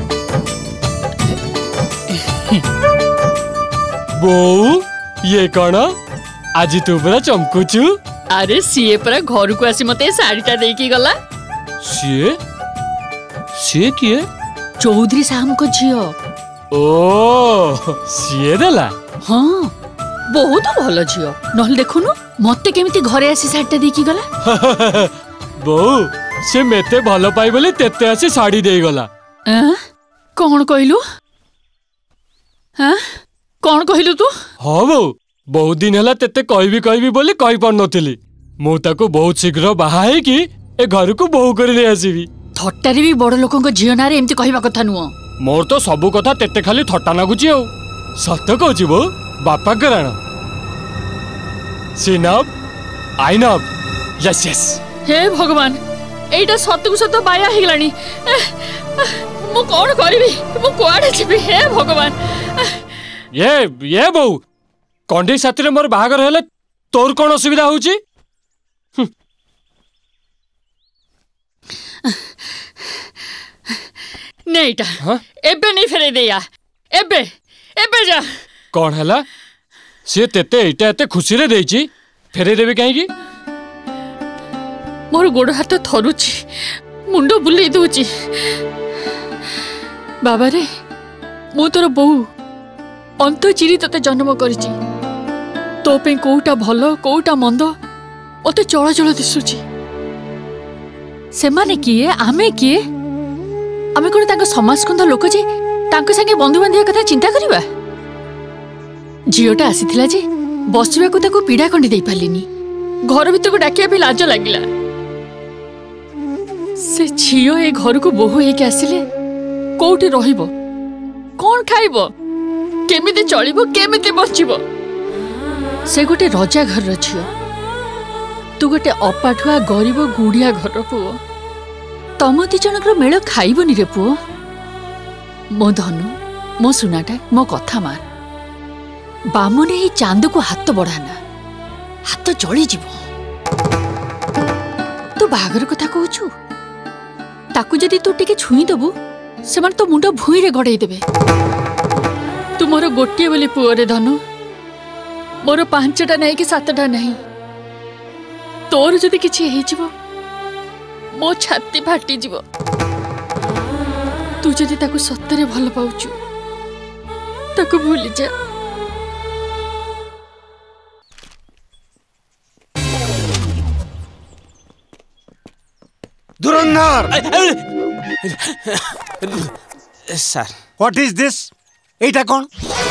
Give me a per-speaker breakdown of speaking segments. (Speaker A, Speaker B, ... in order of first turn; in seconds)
Speaker A: 4.2-5.9, 6.6-8.0, 11.8-12.4, 13.6-14.3, 16.7-18.9, 24.4-29.1, 34.6-42.3, 45.4-50.2, 52.0-52.5, 53.2-53.7, 54.2-54.8, 63.3-64.4, 65.1-68.0, 78.7-79.2, 80.1-83.1
Speaker B: 8.3-11.2, 14.8-16.1, 19.2-19.7, 20.3-24.3, 29.5-29.8, 30.4-31.0, 32.8-33.1, 33.6-34.3, 42.6-45.1, 55.1-55.8, 56.3-62.8, 72.0-73.9, 74.5-78.3, 85.1-88.6, 90.2-90.7, 91.5-92.3, 93.2-94.8, 95.8-97.7, 98.4-99.6, 101.3-102.8, 103.9-107.7, 109.3-112.5, 113.1-114.7, 116.8-119.0, 119.8-120.5, 121.4-122.1, 122.9-124.6, 125.9-127.3, 128.6-131.2, 132.2-134.2, 135.5-138.0, 139.3-141.2, 142.1-143.0, 145.2-146.3, 147.5-148.9, 149.5-151.0, 152.6-154.2, 155.4-157.2, 158.7-159.9, 161.1-162.4, 164.4-166.2, 167.6-168.3
Speaker C: 176.4-177.2, 180.8-182.5
Speaker D: 176.7-177.6, 178.2-179.5, 180.1-180.5